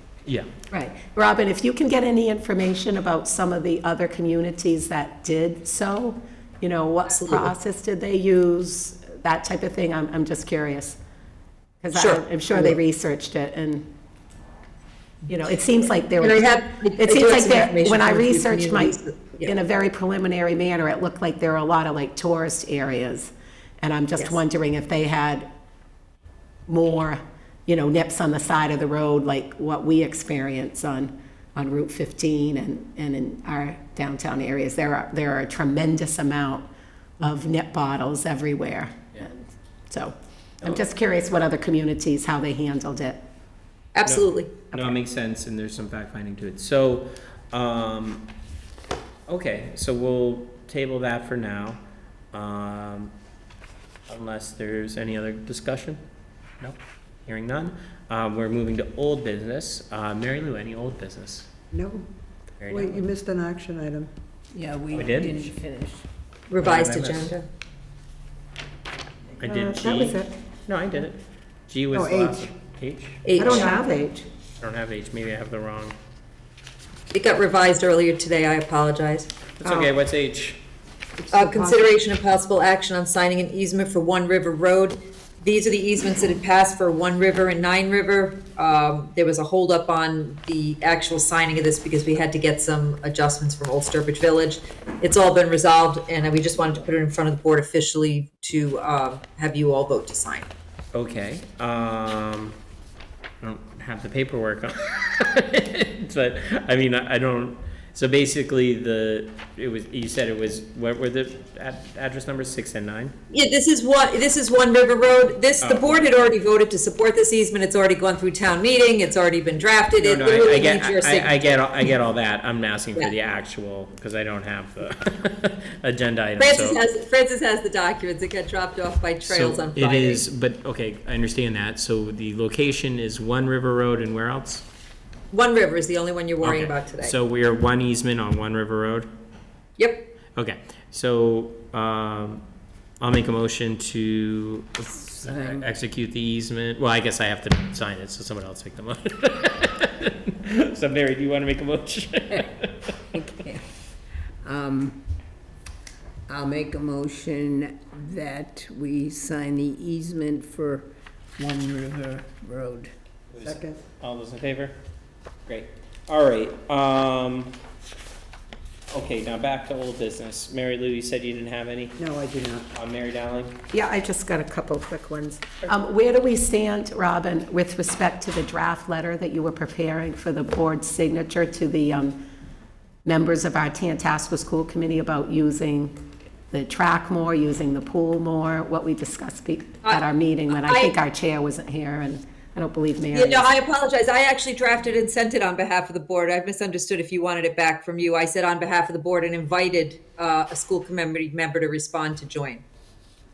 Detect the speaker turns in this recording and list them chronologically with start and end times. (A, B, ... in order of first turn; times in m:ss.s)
0:00.7-0:11.0 A
0:07.1-0:07.5 B
0:11.8-0:13.9 A
0:11.9-0:12.8 B
0:15.3-0:25.5 A
0:16.2-0:19.5 B
0:26.7-0:36.7 A
0:37.2-0:43.2 A
0:44.0-0:44.5 B
0:44.1-0:48.3 C
0:49.3-0:51.8 C
0:52.3-0:53.1 C
0:54.1-0:56.0 C
0:56.6-1:01.5 C
1:01.7-1:02.1 D
1:02.6-1:03.1 C
1:02.7-1:04.1 D
1:04.5-1:06.1 E
1:04.9-1:05.5 C
1:06.5-1:07.4 B
1:06.6-1:07.4 C
1:09.4-1:13.8 C
1:09.5-1:10.3 A
1:11.9-1:12.5 D
1:13.2-1:13.8 B
1:13.4-1:14.1 A
1:13.5-1:14.2 D
1:14.6-1:16.0 C
1:17.1-1:19.3 B
1:19.6-1:20.6 C
1:21.2-1:21.8 D
1:21.3-1:40.5 B
1:40.9-1:42.6 C
1:43.4-1:53.1 C
1:53.3-2:01.8 B
1:55.6-1:56.0 C
2:00.0-2:06.8 C
2:06.4-2:10.2 B
2:09.3-2:14.6 C
2:15.3-2:17.1 B
2:16.4-2:19.1 C
2:19.8-2:20.1 B
2:20.4-2:22.4 C
2:23.0-2:33.2 C
2:25.2-2:25.7 E
2:33.1-2:33.7 E
2:34.4-2:35.0 E
2:36.3-2:42.9 E
2:43.3-2:44.8 C
2:43.4-2:43.8 D
2:45.5-2:47.6 C
2:48.9-2:52.0 C
2:52.0-2:52.7 D
2:52.7-2:53.6 C
2:53.7-3:02.2 A
3:03.0-3:06.0 A
3:06.5-3:13.5 A
3:09.8-3:10.9 B
3:13.1-3:22.6 B